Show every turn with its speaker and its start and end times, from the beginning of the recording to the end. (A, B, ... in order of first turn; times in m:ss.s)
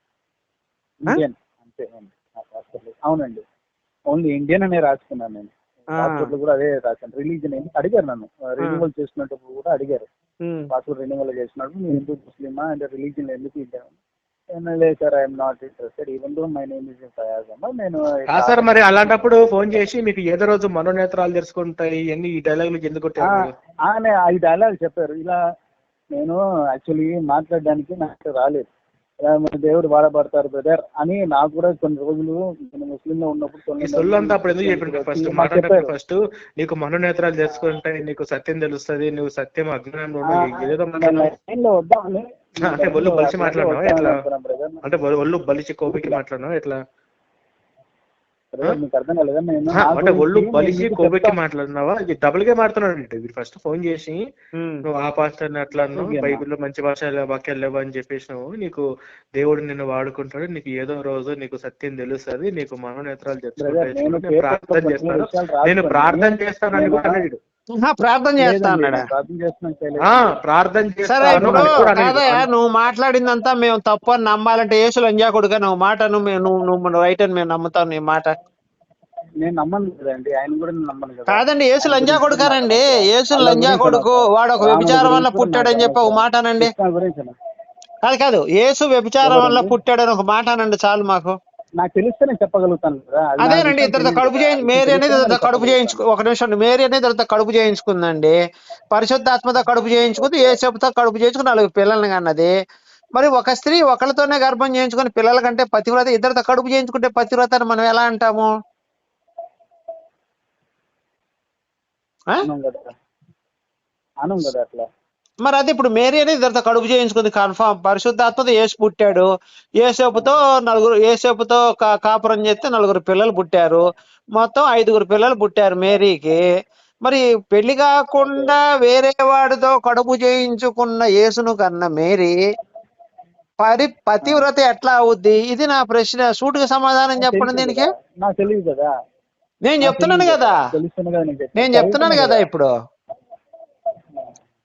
0:01.0-0:03.4 A
0:04.1-0:10.1 A
0:06.0-0:06.3 B
0:10.4-0:10.7 B
0:10.7-0:13.9 A
0:14.6-0:19.9 A
0:18.3-0:23.5 C
0:23.2-0:25.4 A
0:26.2-0:28.7 A
0:29.3-0:35.9 A
0:33.8-0:41.3 C
0:40.3-0:44.8 A
0:42.6-0:44.2 C
0:44.8-0:46.8 C
0:45.9-0:46.2 A
0:48.5-0:51.3 A
0:49.7-0:54.2 C
0:54.6-0:54.8 B
0:54.8-0:58.8 C
0:55.7-0:56.4 A
0:59.4-1:07.4 C
1:03.6-1:07.2 A
1:07.8-1:09.0 B
1:08.4-1:10.3 A
1:10.0-1:12.5 C
1:11.1-1:18.3 B
1:11.2-1:11.9 A
1:19.4-1:27.3 A
1:21.3-1:26.7 B
1:28.0-1:31.4 B
1:29.2-1:29.7 A
1:31.8-1:36.0 A
1:33.4-1:38.4 B
1:38.9-1:42.5 B
1:40.2-1:40.6 A
1:43.2-1:48.5 B
1:52.4-1:52.9 A
1:54.2-1:54.8 A
1:55.4-1:59.3 B
1:59.8-2:03.8 B
2:00.2-2:00.4 A
2:04.4-2:06.4 B
2:07.0-2:12.4 B
2:08.2-2:08.6 A
2:13.6-2:17.9 B
2:14.2-2:14.5 A
2:17.2-2:18.9 A
2:19.6-2:20.5 B
2:19.8-2:22.5 A
2:21.6-2:22.7 B